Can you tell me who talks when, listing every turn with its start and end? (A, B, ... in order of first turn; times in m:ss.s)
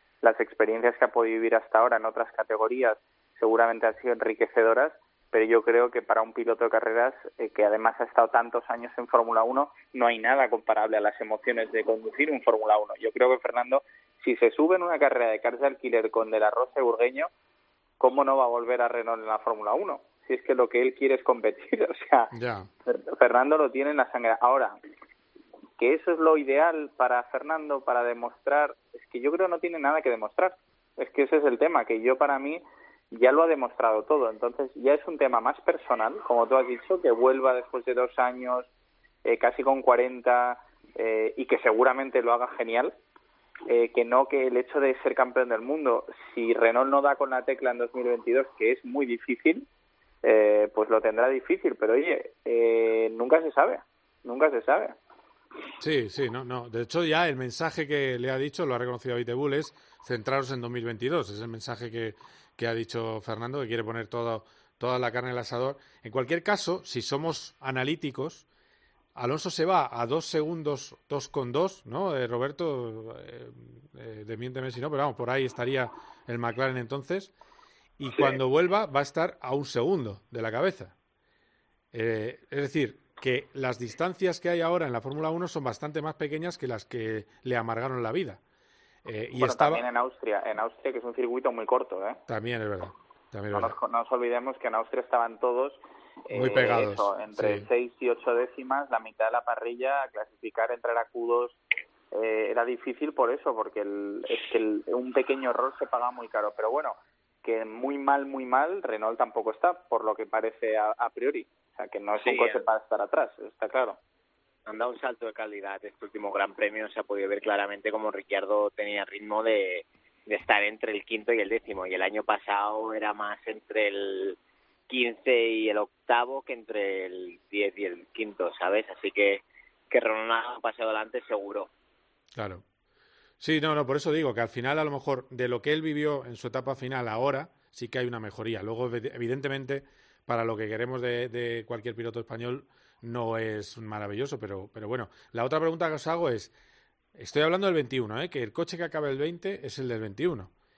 0:00.2-0:17.3 A
0:18.0-0:22.3 A
0:22.3-0:22.7 B
0:22.8-0:24.8 A
0:25.8-0:38.7 A
0:39.2-0:42.9 A
0:43.7-0:49.6 A
0:50.2-0:54.9 A
0:55.8-1:08.4 B
1:09.1-1:17.3 B
1:18.0-1:20.9 B
1:21.9-1:28.4 B
1:29.0-1:29.8 B
1:29.4-1:32.2 A
1:32.3-1:33.8 B
1:33.5-1:41.6 A
1:36.3-1:37.6 B
1:42.1-1:54.0 A
1:52.2-1:52.6 C
1:54.7-2:04.4 C
2:04.9-2:11.7 C
2:12.3-2:12.6 B
2:13.4-2:26.5 B
2:27.2-2:30.5 B